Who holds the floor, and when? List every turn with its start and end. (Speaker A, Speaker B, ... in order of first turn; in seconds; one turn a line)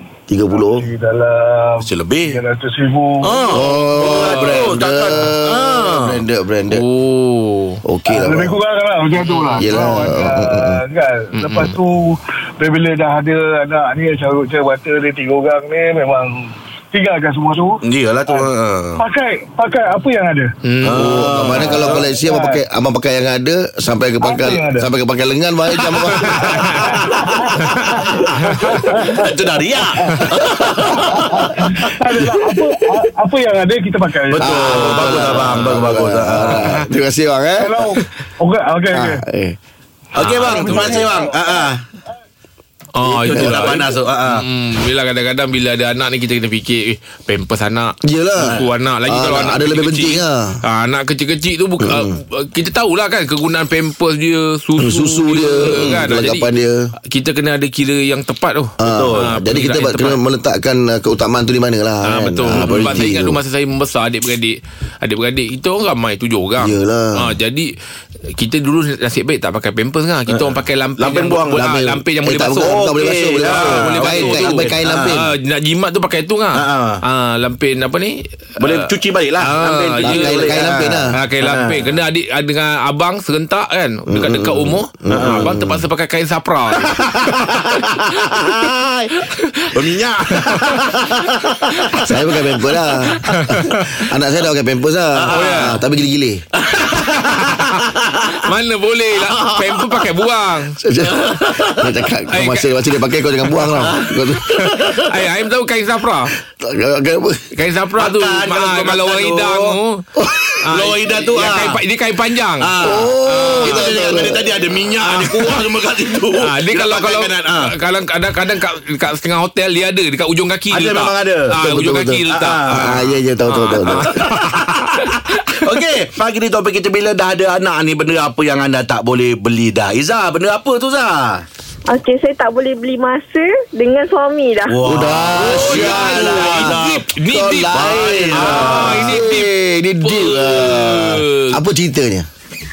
Speaker A: 0.3-0.9
Speaker B: 0.5-3.6
Speaker C: 1.8-2.4
Speaker C: 3.2-6.2
Speaker A: 3.5-6.8
Speaker D: 6.7-7.8
Speaker A: 7.8-8.5
Speaker B: 8.1-20.5
Speaker D: 9.2-9.7
Speaker A: 9.6-10.8
Speaker D: 11.3-11.8
Speaker C: 17.8-19.0
Speaker D: 20.6-21.0
Speaker C: 20.8-22.0
Speaker A: 20.9-26.6
Speaker B: 21.6-22.6
Speaker B: 24.2-24.9
Speaker D: 26.2-26.8
Speaker B: 26.5-35.4
Speaker C: 26.8-27.2
Speaker C: 29.1-31.4
Speaker C: 34.3-36.6
Speaker A: 34.4-37.8
Speaker D: 34.7-35.8
Speaker D: 36.5-36.9
Speaker B: 37.6-39.2
Speaker A: 38.9-39.6
Speaker C: 40.1-41.8
Speaker D: 40.2-41.0
Speaker B: 40.3-41.6
Speaker D: 42.9-56.5
Speaker C: 43.0-44.4
Speaker A: 48.0-50.6
Speaker A: 51.8-52.1
Speaker A: 54.8-56.9
Speaker C: 55.6-56.0
Speaker D: 57.1-60.2
Speaker A: 58.8-63.4
Speaker C: 58.8-59.3
Speaker D: 62.0-67.7
Speaker C: 62.5-63.0
Speaker A: 66.6-67.3
Speaker D: 68.3-72.9
Speaker C: 70.3-71.6
Speaker A: 71.5-75.2
Speaker C: 72.5-75.2
Speaker D: 73.4-78.9
Speaker C: 76.5-77.0
Speaker C: 78.6-81.9
Speaker D: 79.4-87.0
Speaker A: 80.0-81.1
Speaker A: 84.1-85.8
Speaker C: 85.1-85.6
Speaker C: 86.8-89.1
Speaker D: 89.3-89.8
Speaker C: 89.7-92.1
Speaker D: 90.3-90.8
Speaker A: 92.0-96.4
Speaker D: 93.2-94.0
Speaker C: 95.2-95.7
Speaker D: 95.3-95.8
Speaker C: 96.6-98.3
Speaker D: 97.2-97.8
Speaker D: 98.4-100.8
Speaker C: 99.3-100.1
Speaker A: 100.8-104.6
Speaker C: 101.0-101.9
Speaker D: 102.3-102.7
Speaker C: 103.8-105.0
Speaker D: 104.6-106.3
Speaker A: 106.6-107.5
Speaker D: 107.5-110.0
Speaker C: 108.0-109.8
Speaker A: 110.2-110.6
Speaker D: 110.7-112.7
Speaker C: 110.7-111.8
Speaker C: 112.6-117.7
Speaker A: 112.8-114.6
Speaker D: 113.2-114.2
Speaker D: 115.0-115.6
Speaker D: 116.4-125.7
Speaker C: 120.7-121.6
Speaker A: 121.6-124.2
Speaker C: 122.3-123.0
Speaker C: 124.1-131.4
Speaker E: 131.9-134.8
Speaker C: 134.7-137.0
Speaker A: 134.8-142.3
Speaker D: 135.3-139.5
Speaker C: 137.7-139.2
Speaker D: 140.0-141.6